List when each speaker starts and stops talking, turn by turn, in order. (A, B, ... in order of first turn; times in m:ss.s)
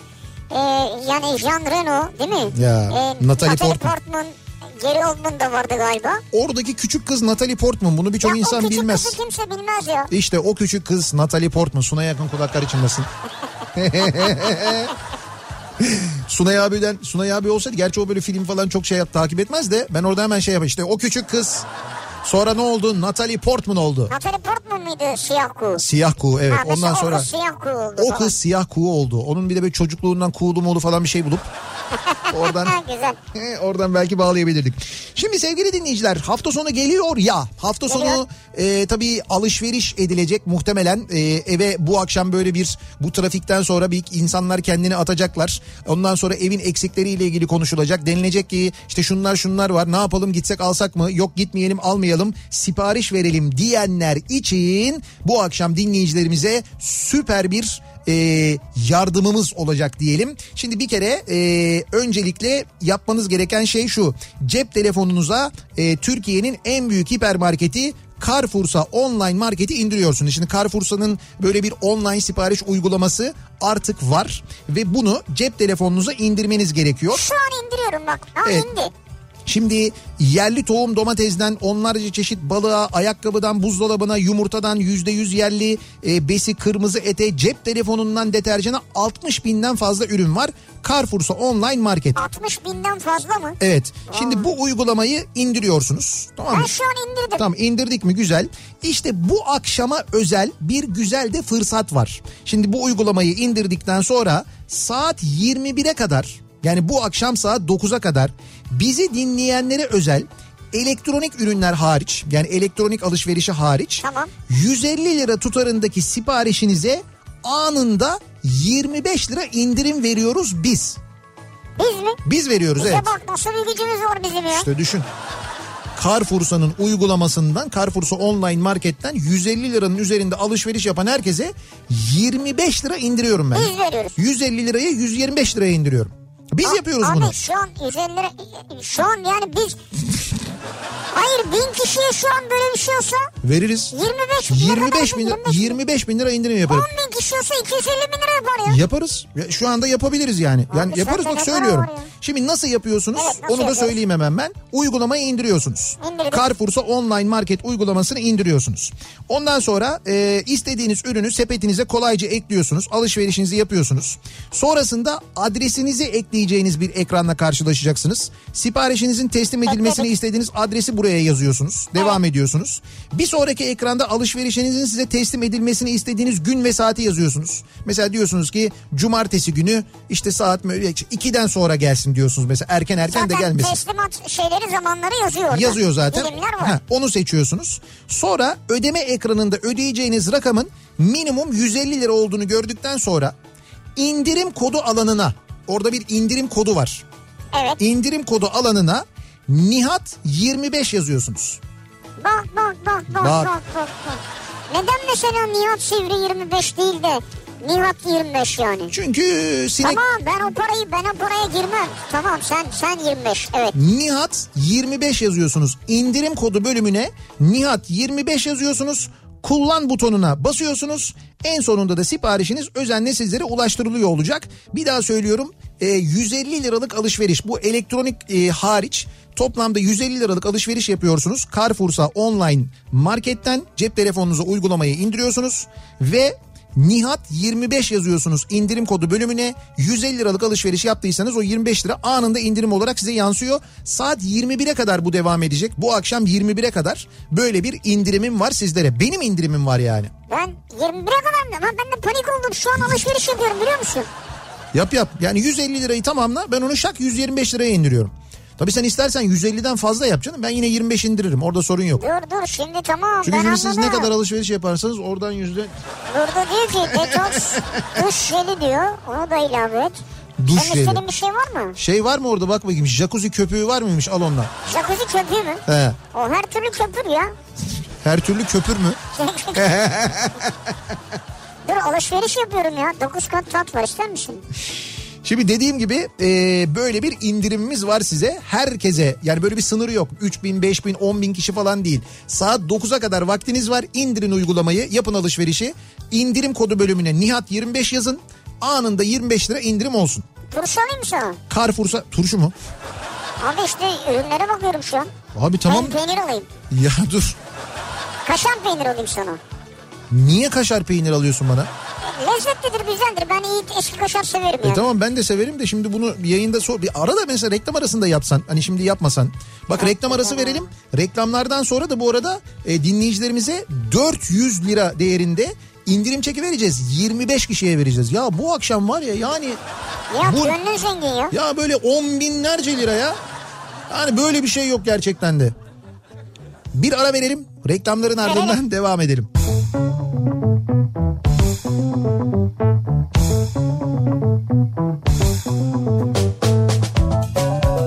0:00.5-0:06.2 A
0:02.5-0:03.9 B
0:06.3-0:09.2 B
0:08.2-0:10.1 A
0:10.1-0:13.1 B
0:13.7-0:14.9 B
0:14.0-0:14.7 A
0:15.8-0:21.6 B
0:22.2-0:24.1 B
0:24.1-0:25.8 A
0:25.8-0:27.3 B
0:26.5-0:28.3 A
0:28.0-0:31.5 B
0:31.9-0:33.2 A
0:32.3-0:32.8 B
0:33.3-1:17.2 B
0:37.9-0:38.2 A
1:17.1-1:18.9 A
1:18.4-1:18.7 B
1:19.4-1:32.2 B
1:32.1-1:34.5 A
1:33.6-1:36.7 B
1:36.5-1:37.4 A
1:37.4-2:01.0 B
1:54.0-1:54.3 A
2:01.8-2:02.2 A
2:02.2-2:03.1 B
2:02.8-2:04.7 A
2:04.5-2:05.1 B
2:06.0-2:17.4 B
2:13.5-2:14.2 A
2:16.6-2:19.8 A
2:21.1-2:23.3 A
2:23.4-2:23.9 B
2:23.9-2:25.8 A
2:24.5-2:26.9 B
2:26.6-2:28.8 A
2:28.6-3:03.8 B
2:30.7-2:32.1 A
2:33.1-2:34.0 A
2:36.0-2:36.4 A
2:49.7-2:50.1 A
3:03.1-3:06.8 A
3:05.5-3:13.3 B
3:14.0-3:17.0 B
3:17.5-3:17.8 A
3:17.8-3:21.6 B
3:22.2-3:28.9 A
3:23.1-3:23.5 B
3:28.9-3:30.0 B
3:29.8-3:33.7 A
3:33.7-4:10.1 B
4:10.3-4:14.1 A
4:14.7-4:22.0 B
4:22.0-4:24.1 A
4:23.2-4:25.7 B
4:26.1-4:30.0 A
4:27.0-4:28.0 B
4:30.4-4:31.0 B
4:30.5-4:31.8 A
4:31.8-4:34.5 B
4:34.6-4:37.3 A
4:35.7-4:36.0 B
4:38.0-4:39.0 B
4:39.1-4:39.8 A
4:39.6-4:40.6 B
4:41.6-4:44.4 A
4:45.2-5:00.2 B
5:00.5-5:01.4 A
5:01.5-5:02.5 B
5:03.4-5:05.1 A
5:05.3-5:06.0 B
5:05.7-5:06.5 A
5:06.7-5:07.4 B
5:08.2-5:09.4 A
5:10.1-5:11.7 B
5:12.0-5:14.8 A
5:14.6-5:29.6 B
5:19.8-5:20.7 A
5:30.1-5:31.3 A
5:30.2-5:30.6 B
5:31.3-5:33.2 B
5:33.9-5:35.5 B
5:36.7-5:39.3 B
5:38.2-5:38.6 A